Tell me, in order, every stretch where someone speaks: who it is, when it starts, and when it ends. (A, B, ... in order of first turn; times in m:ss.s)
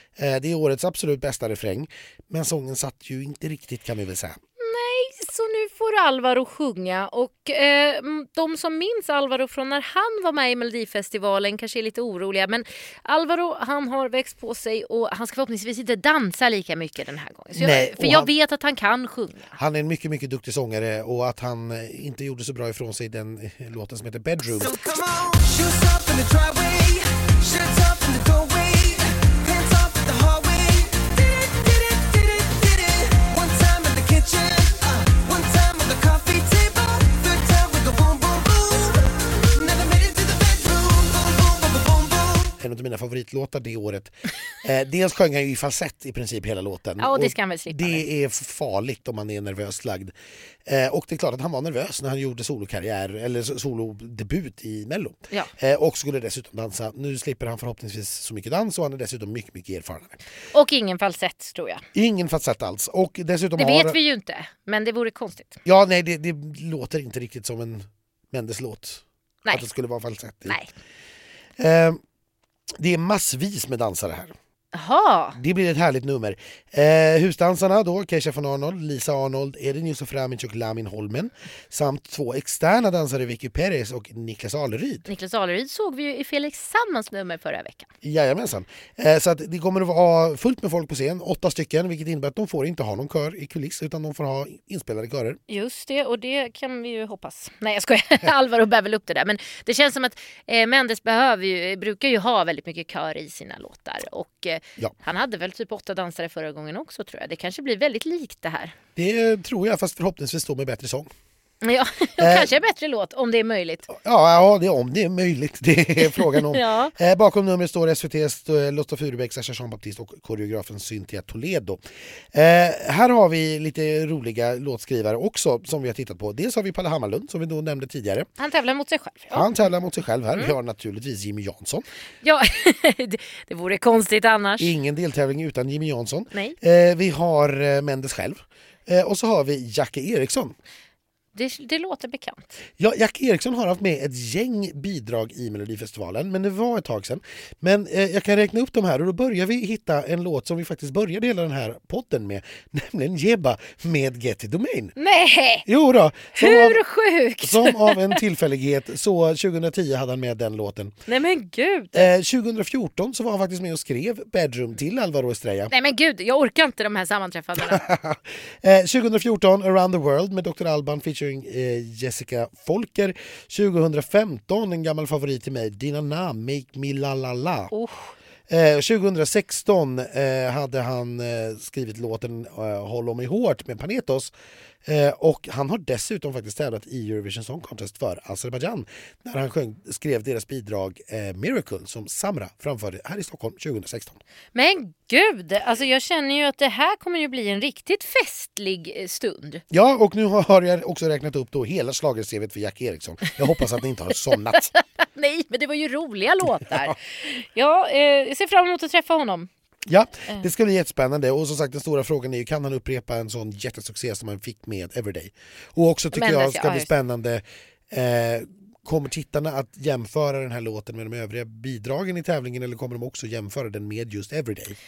0:00.2-0:04.4 A
0:04.6-0:19.6 B
0:17.6-0:18.3 A
0:19.6-0:24.7 A
0:24.5-0:42.6 C
0:42.6-0:50.1 A
0:47.0-0:48.0 B
0:50.6-1:00.2 A
1:00.5-1:01.8 B
1:01.9-1:04.0 A
1:03.6-1:05.6 B
1:05.6-1:10.6 A
1:11.6-1:12.0 A
1:12.8-1:14.3 A
1:14.7-1:15.4 B
1:15.4-1:25.1 A
1:25.1-1:27.9 B
1:28.0-1:35.4 A
1:35.5-1:48.7 B
1:49.0-1:51.1 A
1:51.6-1:53.9 B
1:52.2-1:52.5 A
1:53.9-2:01.8 A
1:56.0-1:56.9 B
2:02.3-2:08.3 A
2:08.4-2:09.5 B
2:09.3-2:11.8 A
2:12.2-2:14.7 B
2:14.6-2:20.5 A
2:21.3-2:22.6 B
2:22.8-2:34.9 A
2:35.0-2:35.6 B
2:35.6-2:36.8 A
2:36.4-2:38.2 B
2:37.4-2:41.0 A
2:41.1-2:42.1 B
2:41.9-2:45.7 A
2:45.7-2:47.8 B
2:47.6-2:57.7 A
2:57.7-2:58.1 B
2:58.5-3:04.3 A
3:04.8-3:14.2 A
3:14.5-3:19.6 B
3:19.7-3:24.7 A
3:24.5-3:29.5 B
3:29.9-3:44.8 A
3:36.1-3:36.9 B